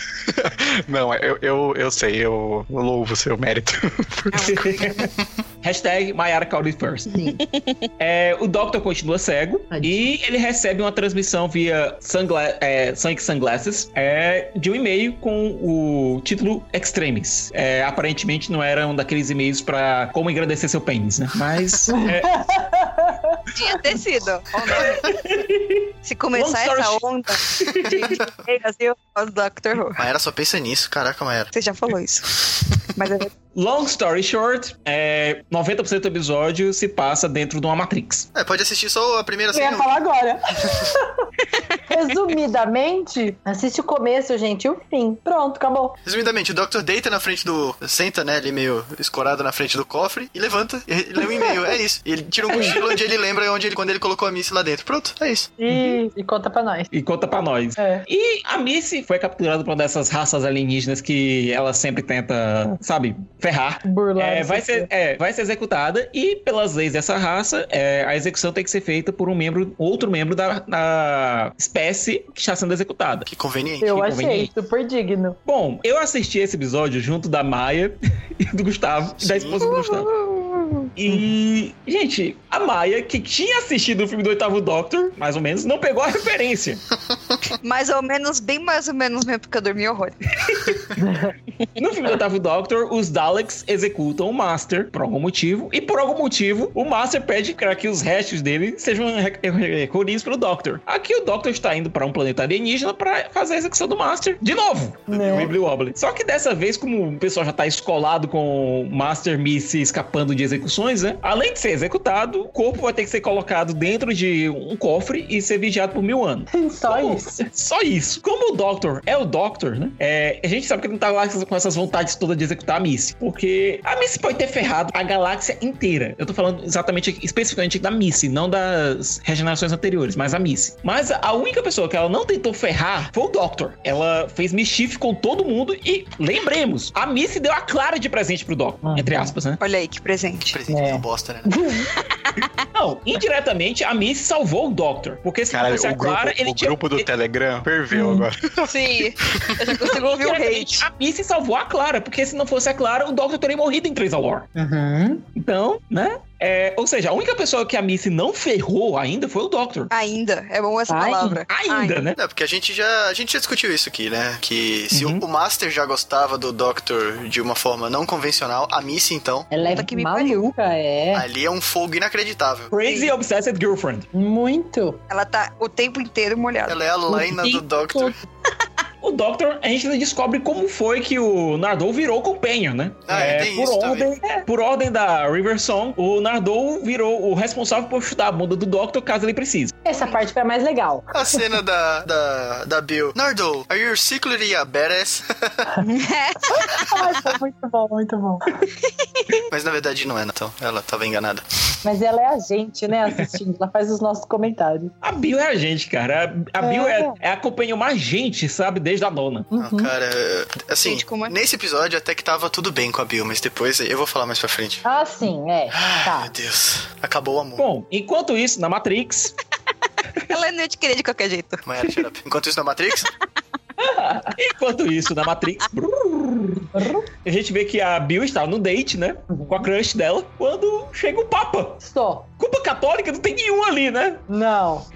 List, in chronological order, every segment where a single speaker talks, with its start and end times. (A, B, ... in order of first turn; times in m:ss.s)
0:00.3-0:04.6 A
0:04.3-0:04.6 B
0:04.4-0:07.1 C
0:07.1-0:07.4 D
0:08.0-0:22.3 C
0:09.7-0:10.1 D
0:21.9-0:23.4 D
0:23.5-0:25.1 B
0:24.8-0:28.2 C
0:26.0-0:30.0 B
0:30.0-0:31.5 E
0:31.5-0:33.3 B
0:33.6-0:38.3 C
0:38.3-0:39.9 E
0:39.5-0:41.2 D
0:41.9-0:46.0 D
0:46.0-0:55.5 E
0:51.2-0:51.6 D
0:52.5-0:52.8 C
0:52.5-0:53.0 D
0:55.6-0:56.9 D
0:56.9-1:13.3 C
0:57.8-0:58.0 D
1:03.8-1:04.9 D
1:13.3-1:14.0 E
1:13.8-1:15.4 D
1:13.9-1:14.5 C
1:15.4-1:20.1 C
1:19.2-1:19.8 E
1:19.6-1:20.9 B
1:21.0-1:26.8 C
1:27.6-1:30.2 B
1:30.4-1:30.9 C
1:31.0-1:31.3 D
1:31.8-2:19.6 C
1:45.1-1:45.6 D
1:56.5-1:57.4 D
2:18.8-2:19.3 D
2:19.6-2:20.6 B
2:20.5-2:21.6 E
2:20.7-2:21.9 D
2:22.7-2:27.1 C
2:25.5-2:29.1 A
2:27.9-2:28.2 D
2:28.7-2:30.9 B
2:29.8-2:34.5 C
2:34.6-2:35.2 D
2:35.4-2:39.9 C
2:39.9-2:42.0 B
2:40.9-2:41.4 D
2:41.5-2:42.2 C
2:42.2-2:49.5 E
2:44.9-2:45.2 C
2:49.5-2:51.3 D
2:49.7-2:50.5 B
2:51.1-2:52.7 E
2:52.7-2:54.1 C
2:54.1-2:55.0 D
2:55.1-2:56.8 B
2:56.7-2:58.2 E
2:57.1-2:58.1 D
2:59.0-3:09.7 C
3:03.1-3:04.1 E
3:09.9-3:11.4 D
3:09.9-3:10.2 B
3:11.1-3:15.7 E
3:15.8-3:17.0 B
3:16.5-3:18.5 D
3:19.5-3:21.4 E
3:21.8-3:24.9 D
3:25.0-3:29.5 C
3:26.6-3:27.1 D
3:29.5-3:29.9 D
3:29.5-3:34.8 E
3:30.8-3:31.3 B
3:34.8-3:36.3 D
3:35.8-3:37.7 E
3:37.6-3:39.3 C
3:40.3-3:41.6 B
3:41.6-3:43.1 E
3:43.8-3:44.3 D
3:44.3-3:46.7 C
3:46.7-3:47.1 D
3:47.2-3:51.8 C
3:49.3-3:49.7 D
3:51.8-3:52.3 D
3:52.4-3:54.2 C
3:54.3-3:54.9 D